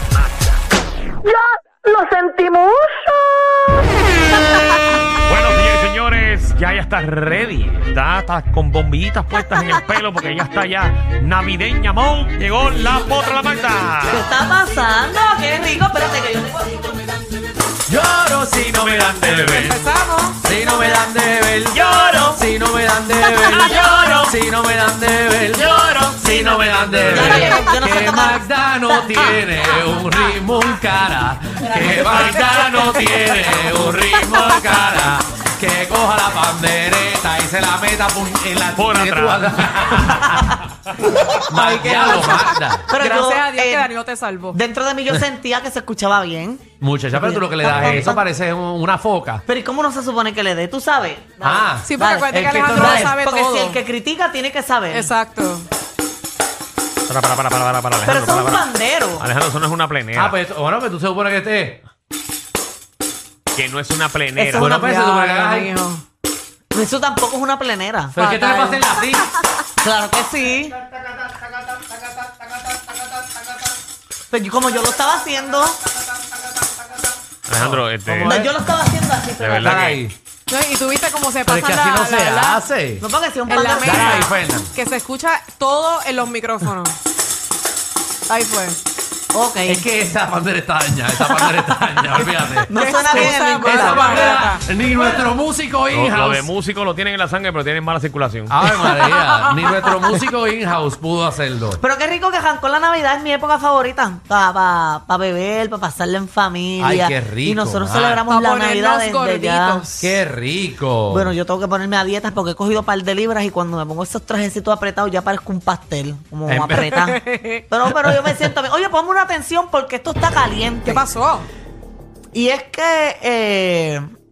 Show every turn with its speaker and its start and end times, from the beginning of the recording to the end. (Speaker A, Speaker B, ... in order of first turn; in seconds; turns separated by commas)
Speaker A: 1.2-3.9, Speaker A: 4.5-4.8, Speaker B: 5.2-14.3, Speaker A: 14.1-17.1, Speaker C: 17.9-19.9, Speaker B: 18.7-19.7, Speaker D: 19.6-20.4, Speaker C: 20.4-40.6, Speaker B: 21.7-22.3, Speaker A: 21.7-22.4, Speaker B: 23.6-24.3, Speaker A: 23.6-24.3, Speaker B: 25.5-26.2, Speaker A: 26.2-29.5, Speaker B: 26.7-27.6, Speaker A: 31.8-32.2, Speaker B: 31.8-35.0, Speaker B: 38.8-40.4, Speaker C: 41.3-42.9, Speaker D: 41.6-44.6, Speaker A: 42.9-43.9, Speaker A: 44.5-48.3, Speaker C: 46.8-49.4, Speaker A: 49.5-55.1, Speaker C: 51.4-53.1, Speaker D: 51.9-53.8, Speaker D: 54.9-55.7, Speaker B: 57.1-60.4, Speaker A: 58.0-59.3, Speaker C: 60.1-61.8, Speaker B: 63.5-64.8, Speaker A: 64.3-65.0, Speaker C: 64.6-65.7, Speaker D: 64.8-66.0, Speaker A: 66.7-68.2, Speaker C: 68.2-69.3, Speaker D: 68.2-68.9, Speaker A: 69.8-70.8, Speaker D: 71.7-72.3, Speaker A: 74.3-75.8, Speaker B: 77.5-78.5, Speaker C: 77.6-78.5, Speaker A: 78.2-80.0, Speaker B: 79.4-80.0, Speaker C: 79.6-80.2, Speaker D: 80.5-82.6, Speaker C: 81.5-83.0, Speaker A: 83.0-84.3, Speaker D: 83.5-87.0, Speaker C: 83.8-84.7, Speaker B: 83.9-84.2, Speaker D: 88.3-88.8, Speaker A: 89.3-89.8, Speaker C: 89.7-96.5, Speaker A: 92.7-94.4, Speaker D: 92.8-94.6, Speaker B: 95.9-98.6, Speaker C: 98.5-101.8, Speaker D: 99.0-100.1, Speaker A: 101.8-109.8, Speaker C: 106.8-108.2, Speaker D: 108.2-110.2, Speaker C: 110.0-111.3, Speaker A: 111.1-121.1, Speaker C: 116.5-117.0, Speaker D: 116.8-117.7, Speaker D: 120.9-121.5, Speaker A: 122.3-124.0